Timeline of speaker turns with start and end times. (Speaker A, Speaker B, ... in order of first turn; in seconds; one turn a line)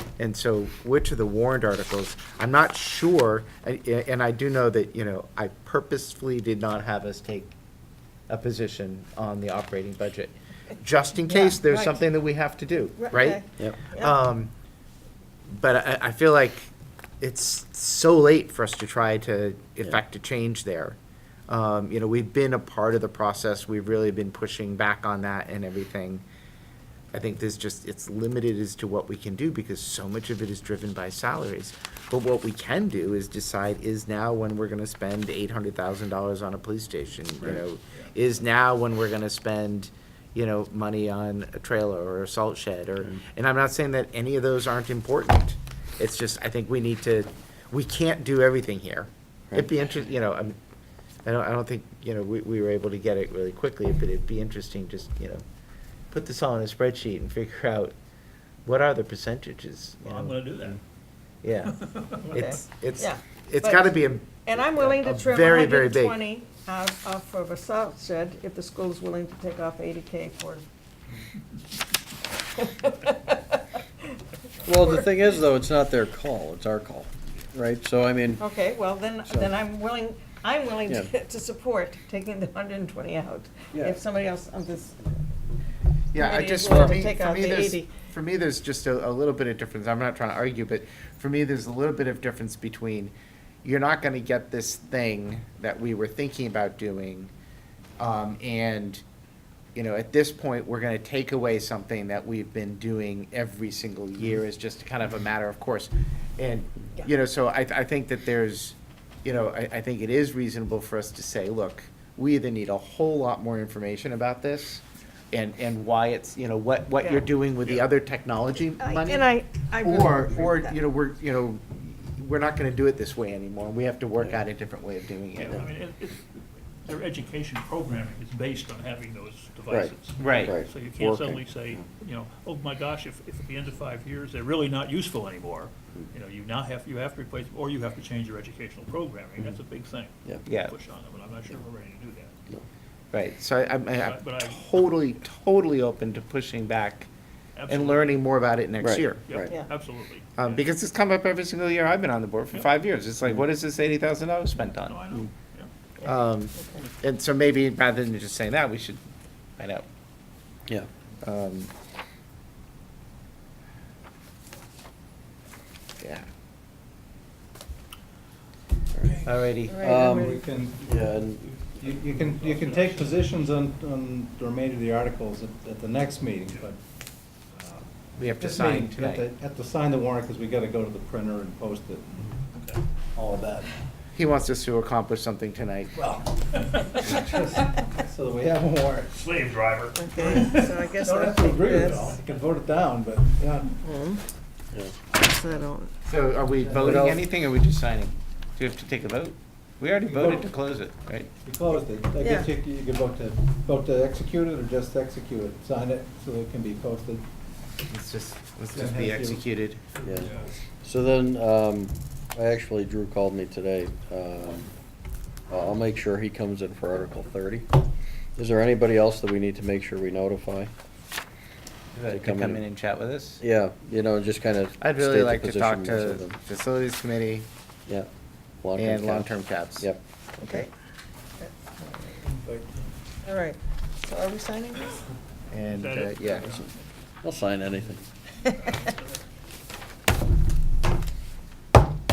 Speaker A: 0.2-7.5
Speaker A: 8.3-14.5
Speaker B: 11.3-12.0
Speaker B: 13.0-14.1
Speaker A: 15.5-26.2
Speaker A: 27.1-50.6
Speaker A: 51.2-55.4
Speaker A: 56.1-57.9
Speaker A: 58.6-60.4
Speaker C: 60.0-60.8
Speaker A: 61.4-61.8
Speaker C: 61.7-62.4
Speaker B: 62.3-70.6
Speaker A: 62.3-66.2
Speaker B: 72.5-74.0
Speaker D: 74.6-78.4
Speaker B: 78.4-85.2
Speaker D: 79.3-79.5
Speaker A: 86.1-97.3
Speaker B: 86.1-87.9
Speaker A: 98.0-99.0
Speaker A: 99.7-125.7
Speaker B: 118.8-120.7
Speaker C: 125.4-142.3
Speaker A: 130.2-130.5
Speaker D: 130.4-131.8
Speaker A: 140.4-140.7
Speaker A: 143.1-147.1
Speaker C: 144.0-144.7
Speaker C: 147.6-148.2
Speaker A: 147.7-149.2
Speaker D: 148.8-149.5
Speaker C: 149.3-150.6
Speaker A: 150.4-155.2
Speaker C: 154.8-155.7
Speaker A: 156.0-159.8
Speaker A: 161.2-161.7
Speaker A: 166.0-166.2
Speaker D: 168.9-169.3
Speaker A: 169.2-169.8
Speaker B: 169.7-170.4
Speaker D: 169.8-171.4
Speaker E: 170.1-170.9
Speaker C: 170.7-173.4
Speaker E: 171.8-176.8
Speaker E: 177.5-177.8
Speaker A: 178.2-179.3
Speaker E: 178.4-182.3
Speaker C: 182.6-182.8
Speaker E: 183.1-183.7
Speaker A: 184.1-186.0
Speaker C: 185.9-187.1
Speaker E: 187.0-189.2
Speaker C: 189.2-190.8
Speaker B: 190.0-192.2
Speaker E: 191.0-193.8
Speaker B: 193.8-194.3
Speaker B: 195.1-195.9
Speaker A: 196.0-201.3
Speaker E: 196.6-197.1
Speaker D: 196.8-197.2
Speaker E: 200.0-200.5
Speaker E: 201.4-207.2
Speaker B: 202.2-202.5
Speaker A: 207.9-209.8
Speaker E: 208.7-209.4
Speaker E: 209.9-210.3
Speaker D: 210.0-210.3
Speaker D: 210.8-214.7
Speaker D: 215.5-217.7
Speaker D: 218.3-220.7
Speaker A: 221.9-223.4
Speaker D: 222.1-222.6
Speaker D: 223.4-226.4
Speaker A: 224.8-227.5
Speaker D: 228.6-230.0
Speaker A: 228.8-229.9
Speaker B: 230.4-230.7
Speaker B: 231.4-232.3
Speaker B: 233.2-235.1
Speaker A: 235.5-236.5
Speaker C: 235.7-236.9
Speaker D: 236.4-236.7
Speaker D: 237.2-238.0
Speaker C: 238.4-239.2